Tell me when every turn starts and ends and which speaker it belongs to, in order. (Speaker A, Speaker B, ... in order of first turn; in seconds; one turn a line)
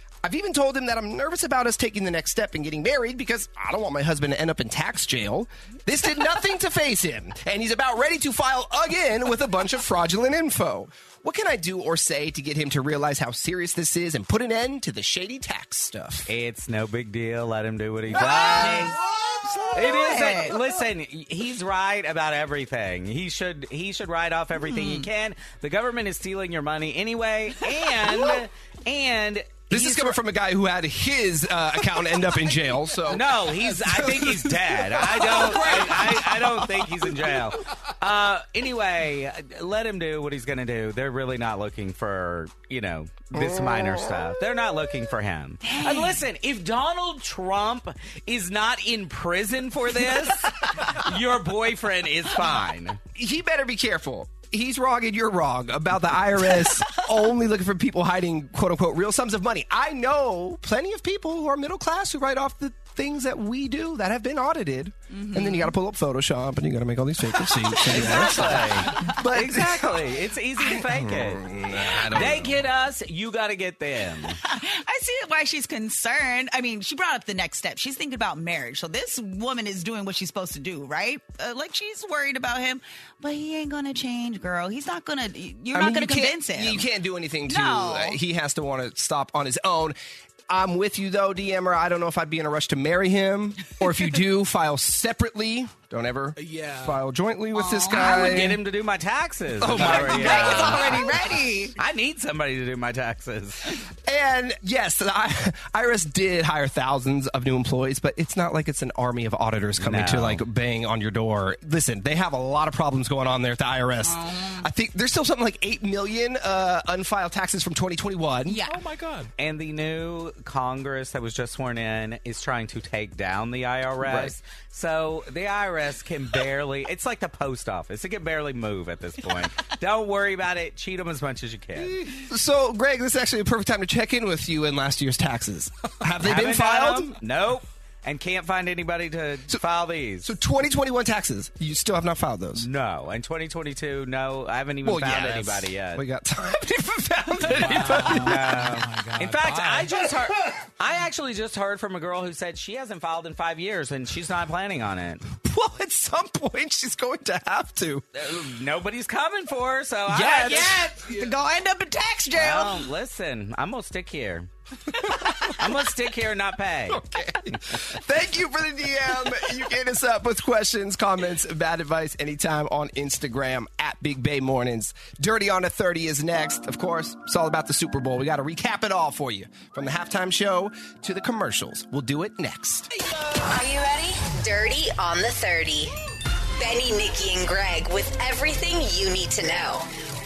Speaker A: 0.2-16.3
Speaker B: 16.3-18.9
Speaker A: 18.1-19.9
Speaker C: 18.2-18.9
Speaker C: 19.6-20.6
Speaker B: 19.7-30.2
Speaker C: 24.6-25.1
Speaker A: 29.7-34.7
Speaker B: 33.1-53.0
Speaker D: 35.1-36.4
Speaker A: 43.3-44.4
Speaker C: 45.6-46.2
Speaker A: 53.1-72.6
Speaker C: 65.1-65.7
Speaker B: 67.8-71.4
Speaker B: 72.1-74.4
Speaker C: 74.4-86.8
Speaker A: 85.7-90.0
Speaker C: 87.5-88.2
Speaker A: 90.5-98.6
Speaker D: 96.4-97.0
Speaker C: 97.5-98.3
Speaker B: 97.9-101.0
Speaker A: 99.6-101.2
Speaker C: 99.7-101.7
Speaker B: 101.8-103.7
Speaker A: 104.0-118.6
Speaker B: 109.8-110.4
Speaker C: 114.0-114.7
Speaker C: 118.5-118.8
Speaker D: 118.6-119.3
Speaker B: 119.4-132.0
Speaker A: 124.0-124.3
Speaker A: 131.9-137.2
Speaker B: 136.2-140.3
Speaker A: 140.2-142.7
Speaker B: 142.6-146.0
Speaker A: 144.8-148.7
Speaker D: 147.4-149.9
Speaker B: 147.6-155.2
Speaker A: 155.3-158.0
Speaker B: 158.1-161.0
Speaker A: 160.1-160.9
Speaker D: 160.3-161.3
Speaker C: 160.5-162.9
Speaker B: 162.3-164.5
Speaker B: 165.4-167.0
Speaker A: 166.9-182.9
Speaker E: 183.3-185.9
Speaker E: 186.6-189.9